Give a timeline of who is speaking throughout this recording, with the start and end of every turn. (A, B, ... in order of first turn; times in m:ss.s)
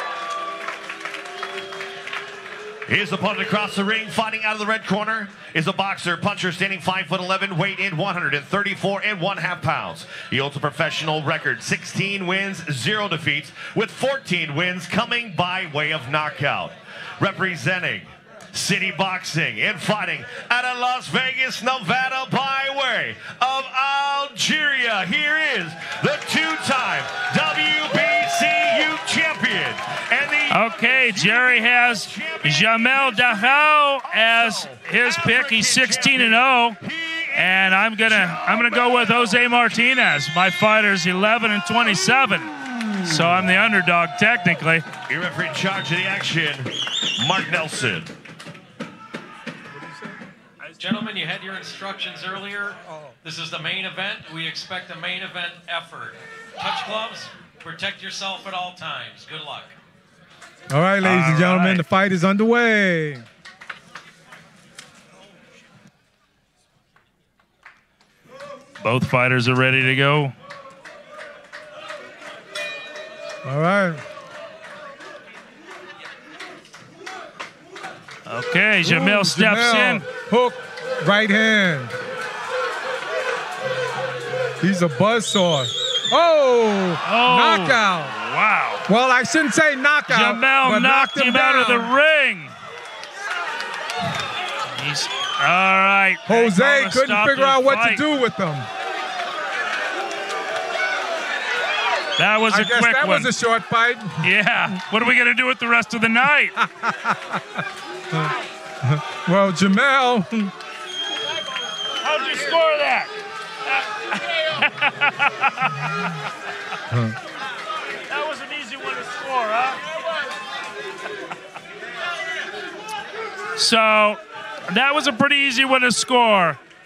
0:02.9-0:39.8 A
0:30.5-0:36.8 B
0:37.4-0:44.9 B
0:42.7-0:43.3 A
0:45.1-0:48.1 A
0:50.8-0:59.8 C
1:00.7-1:03.2 D
1:01.0-1:01.8 B
1:08.8-1:10.3 B
1:13.4-1:14.0 D
1:18.3-1:20.0 B
1:18.8-1:21.9 D
1:24.6-1:28.2 D
1:27.0-1:28.8 B
1:28.9-1:31.9 D
1:30.1-1:32.5 B
1:34.8-1:38.0 B
1:36.3-1:38.7 D
1:42.2-1:43.3 B
1:42.5-1:44.3 D
1:44.2-1:46.6 B
1:46.6-1:47.4 D
1:48.8-1:50.5 D
1:52.0-1:53.1 B
1:54.1-1:55.9 B
1:58.1-1:59.8 B
2:03.6-2:06.6 B